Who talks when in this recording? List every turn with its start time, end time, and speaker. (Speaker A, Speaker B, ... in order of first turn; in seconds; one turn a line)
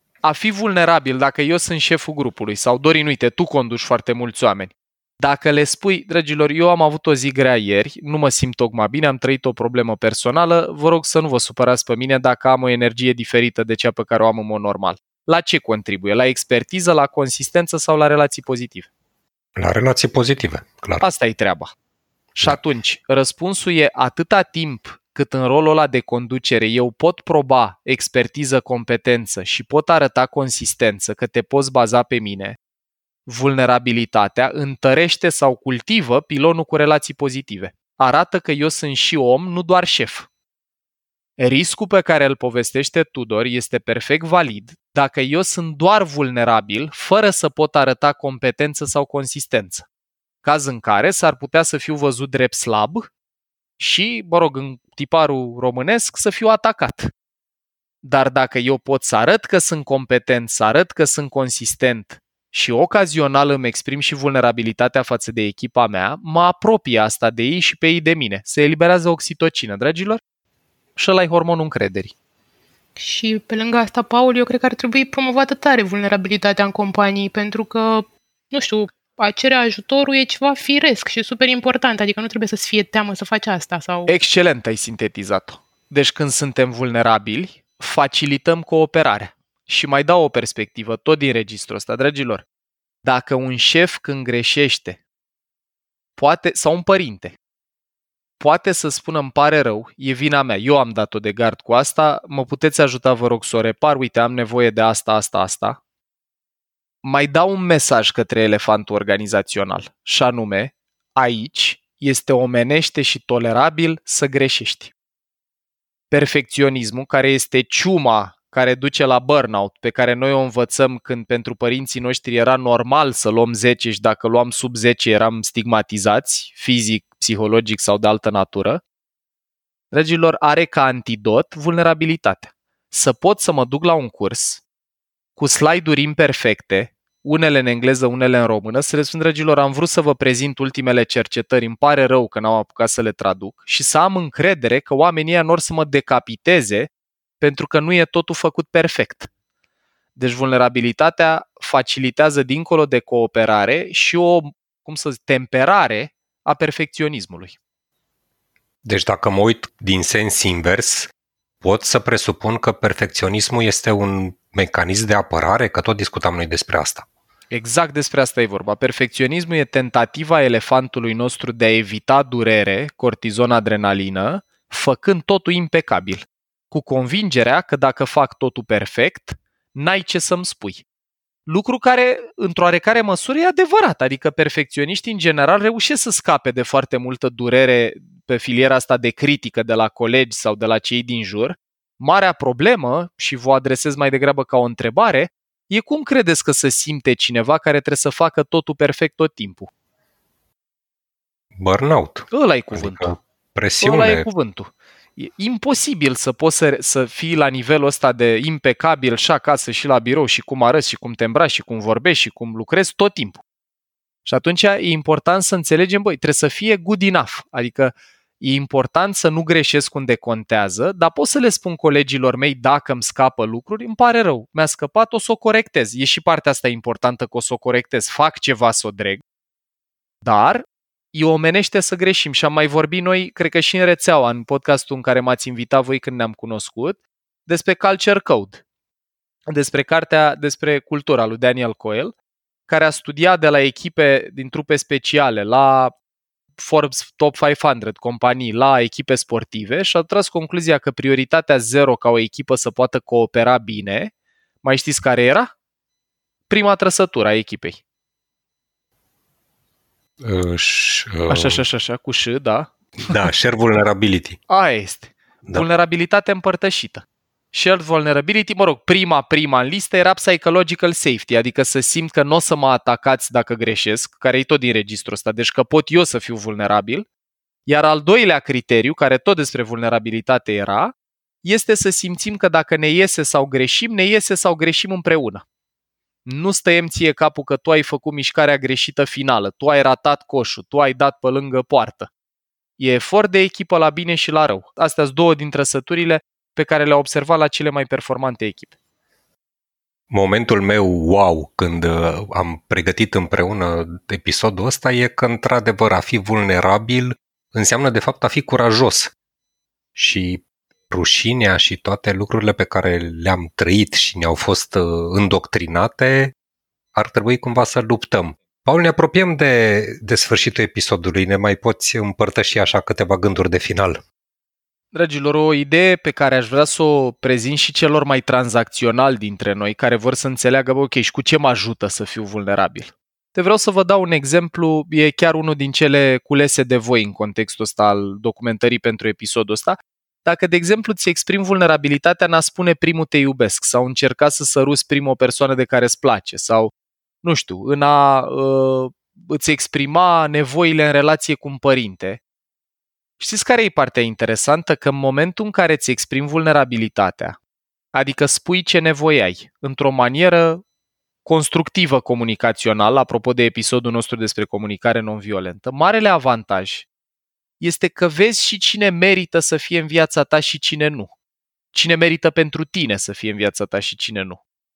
Speaker A: 0.2-18.9
Speaker B: 19.6-21.0
Speaker A: 21.0-21.7
Speaker A: 22.3-32.6
Speaker A: 33.3-40.3
Speaker A: 41.4-49.8
Speaker A: 50.4-53.1
Speaker A: 53.8-57.1
Speaker A: 58.0-70.2
Speaker A: 71.0-72.1
Speaker C: 73.0-84.1
Speaker A: 84.1-92.4
Speaker A: 93.0-95.0
Speaker A: 96.2-97.3
Speaker A: 98.4-105.8
Speaker A: 107.0-114.9
Speaker A: 116.1-128.8
Speaker A: 129.9-134.6
Speaker A: 135.3-149.3
Speaker A: 150.2-157.6
Speaker B: 158.8-167.0
Speaker A: 167.5-180.8
Speaker A: 181.4-199.7
Speaker B: 201.6-204.2
Speaker A: 202.3-203.2
Speaker A: 203.8-213.4
Speaker A: 214.2-229.2
Speaker A: 230.2-238.6
Speaker A: 239.5-242.1
Speaker A: 242.7-245.9
Speaker A: 246.6-254.1
Speaker A: 254.6-255.5
Speaker A: 256.5-257.8
Speaker B: 260.2-261.6
Speaker A: 261.3-263.2
Speaker B: 263.0-264.4
Speaker A: 264.5-277.1
Speaker A: 277.6-285.4
Speaker A: 286.2-292.1
Speaker A: 292.8-298.7
Speaker B: 300.1-309.1
Speaker B: 309.9-316.3
Speaker B: 316.9-324.0
Speaker A: 324.9-346.7
Speaker A: 347.2-352.2
Speaker A: 353.2-357.4
Speaker A: 357.9-360.6
Speaker A: 361.2-366.9
Speaker A: 367.6-371.1
Speaker A: 371.7-374.4